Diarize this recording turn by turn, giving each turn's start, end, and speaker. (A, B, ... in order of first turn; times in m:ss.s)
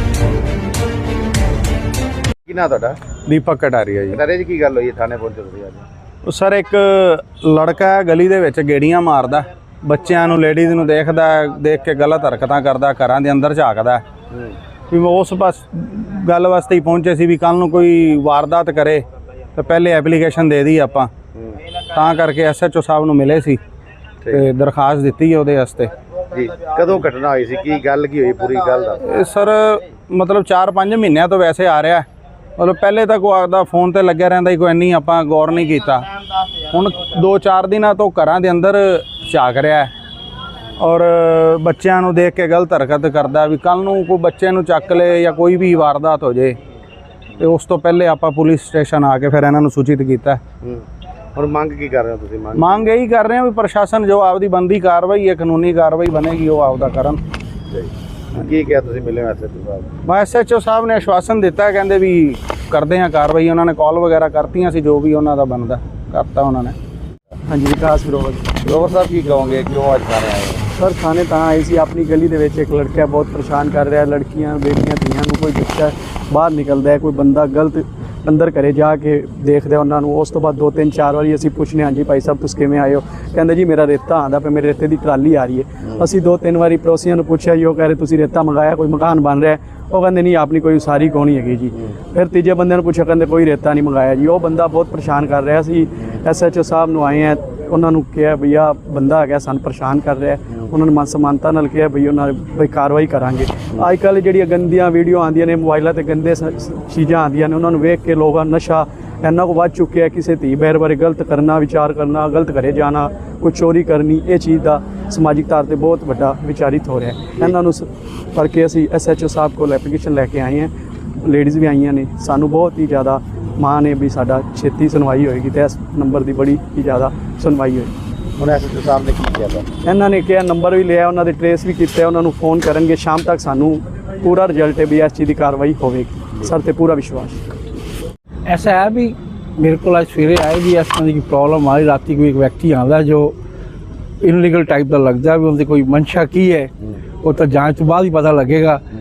0:02.5-0:03.0 A
0:03.3-0:04.2 B
0:04.1-0:05.8 A
0:06.3-0:14.0 B
0:14.9-0:19.0 B
0:19.6-0:21.1 B
0:21.9-0:23.6 B
0:24.3-0:25.9 B
0:26.3-0:29.0 A
0:29.0-0:32.1 B
0:32.6-0:36.1 B
0:36.7-0:39.9 B
0:40.8-0:46.6 B
0:47.4-0:50.4 B
0:51.4-0:52.8 A
0:52.6-0:57.2 B
0:57.7-0:59.9 A
1:00.0-1:06.8 B
1:07.5-1:08.5 C
1:08.6-1:10.6 A
1:10.8-2:00.7 C
2:01.2-2:07.9 C
2:08.4-2:09.7 A
2:09.8-2:17.4 C
2:18.5-2:23.4 D
2:24.2-2:26.7 D
2:27.2-2:28.8 D